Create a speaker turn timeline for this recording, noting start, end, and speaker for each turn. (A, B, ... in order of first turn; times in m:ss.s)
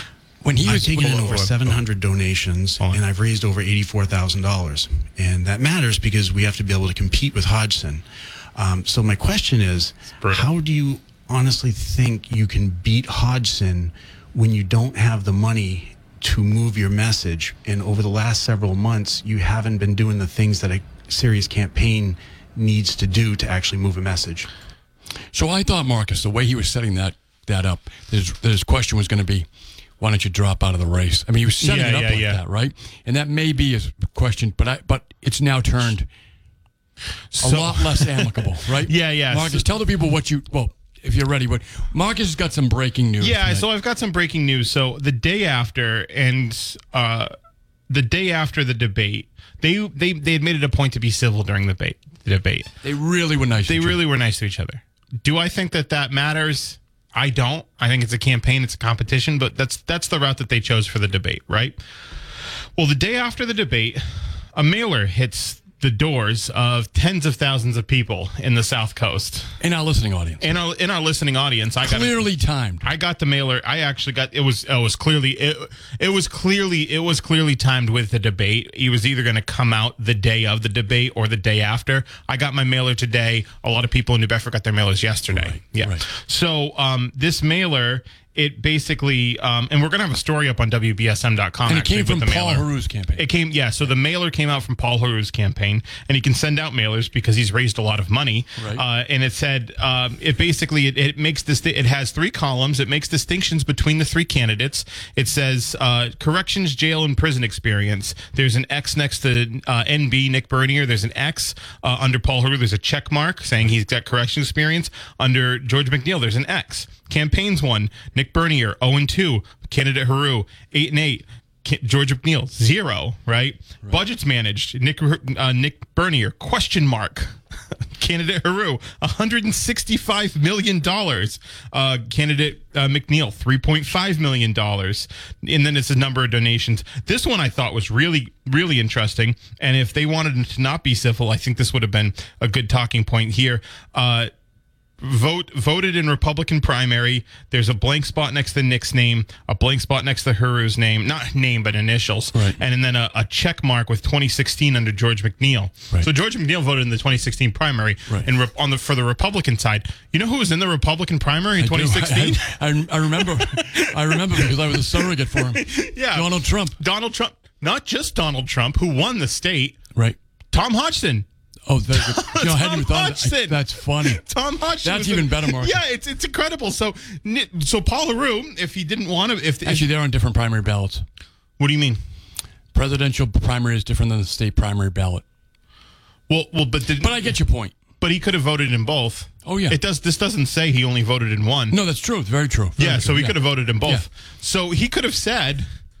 0:00.4-0:01.5 A
0:00.6-0:24.5 B
0:01.0-0:01.5 C
0:10.2-0:10.5 C
0:25.3-0:29.5 A
0:30.0-0:36.1 A
0:31.6-0:32.4 C
0:37.3-0:39.6 C
0:37.4-0:43.6 A
0:43.2-0:47.3 C
0:47.9-0:52.7 C
0:52.8-0:54.0 A
0:53.7-1:01.8 C
1:02.8-1:09.6 C
1:09.6-1:10.5 A
1:10.4-1:12.2 C
1:11.8-1:12.8 A
1:12.8-2:07.4 C
1:25.3-1:26.0 A
1:31.7-1:33.2 A
1:38.6-1:38.8 A
2:08.0-2:24.3 C
2:25.0-2:42.6 C
2:41.6-2:46.8 A
2:43.2-2:44.5 C
2:45.5-2:49.8 C
2:50.5-2:51.2 C
2:51.7-2:54.2 A
2:51.9-2:59.9 C
2:54.8-2:55.8 A
2:59.6-3:01.0 A
3:01.6-3:02.0 C
3:02.7-3:05.2 A
3:06.3-3:07.3 C
3:07.0-3:07.7 A
3:08.0-3:11.8 C
3:09.4-3:09.8 A
3:11.7-3:14.0 A
3:12.8-3:15.7 C